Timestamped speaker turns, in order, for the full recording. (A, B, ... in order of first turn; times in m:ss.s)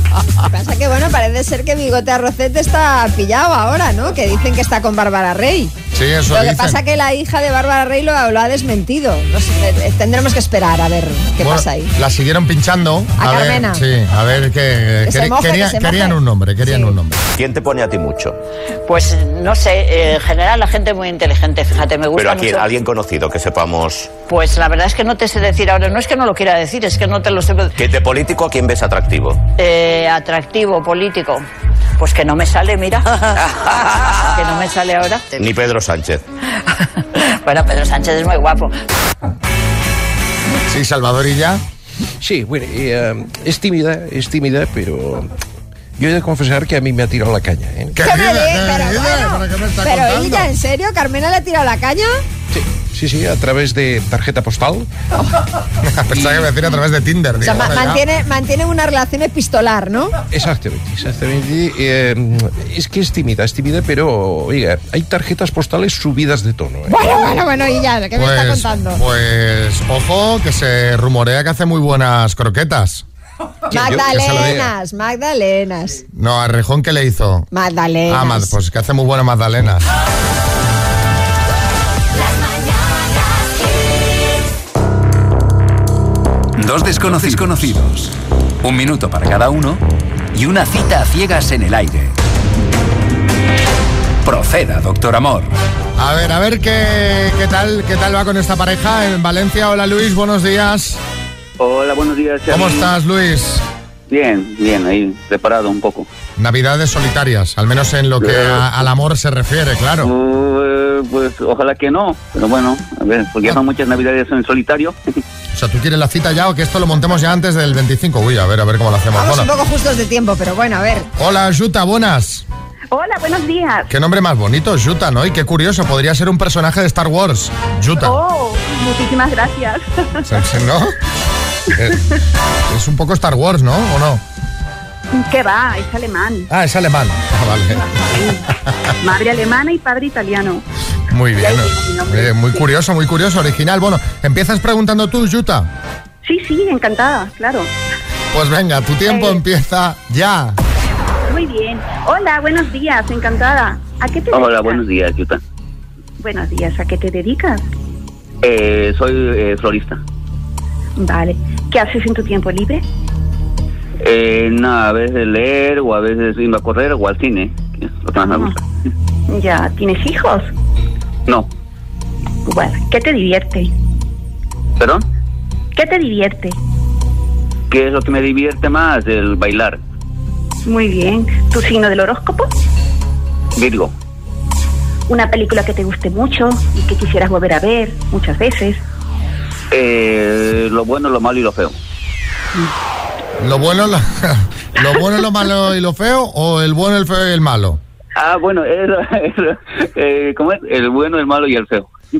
0:00.5-0:05.7 A
0:05.9-0:06.8 B
0:06.3-0:11.9 A
0:11.4-0:17.2 B
0:13.2-0:13.8 A
0:15.0-0:17.0 A
0:17.4-0:18.4 C
0:18.9-0:22.7 D
0:22.2-0:24.1 C
0:24.3-0:27.7 D
0:27.8-0:29.4 C
0:29.6-0:31.4 D
0:32.0-0:35.3 D
0:35.4-0:36.2 C
0:36.7-0:38.8 D
0:40.7-0:41.6 B
0:42.2-0:45.3 E
0:46.0-0:48.0 E
0:48.0-0:50.5 B
0:48.0-0:52.2 A
0:52.5-0:54.9 E
0:55.8-0:58.0 B
0:56.1-0:56.5 E
0:57.4-1:00.1 A
1:00.3-1:07.0 E
1:06.9-1:09.0 A
1:08.2-1:13.0 B
1:13.7-1:14.7 B
1:13.7-1:16.0 A
1:16.1-1:17.5 B
1:17.5-1:18.5 A
1:18.1-1:19.9 B
1:26.6-1:29.8 F
1:27.1-1:27.4 B
1:30.3-1:32.2 F
1:34.2-1:35.5 F
1:36.0-1:41.0 B
1:41.6-1:42.9 G
1:42.5-1:43.6 B
1:44.1-1:46.1 G
1:46.4-1:50.1 B
1:48.2-1:48.7 G
1:50.0-1:55.0 G
1:55.5-1:59.5 B
1:59.2-2:01.1 A
2:01.2-2:02.4 B
2:02.9-2:03.9 H
2:03.9-2:08.2 B
2:08.0-2:10.1 H
2:10.2-2:11.0 B
2:12.7-2:14.2 B
2:15.2-2:16.5 H
2:16.5-2:18.0 B
2:17.8-2:18.4 H
2:18.7-2:18.9 B
2:19.0-2:20.6 H
2:21.1-2:25.7 B
2:21.4-2:22.7 H
2:26.2-2:27.7 H
2:28.3-2:30.6 B
2:29.1-2:29.4 H
2:31.3-2:34.8 H
2:34.3-2:35.4 G
2:36.2-2:37.7 H
2:38.4-2:40.0 G
2:41.0-2:42.8 H
2:44.0-2:48.6 G
2:48.2-2:48.6 H
2:49.3-2:50.5 H
2:52.5-2:53.7 H
2:54.8-2:55.1 G
2:55.8-2:56.6 H
2:57.7-2:59.8 G
3:00.7-3:02.5 H
3:03.6-3:03.9 G
3:05.1-3:08.8 H
3:09.7-3:11.8 G
3:13.4-3:17.8 B
3:18.2-3:21.9 G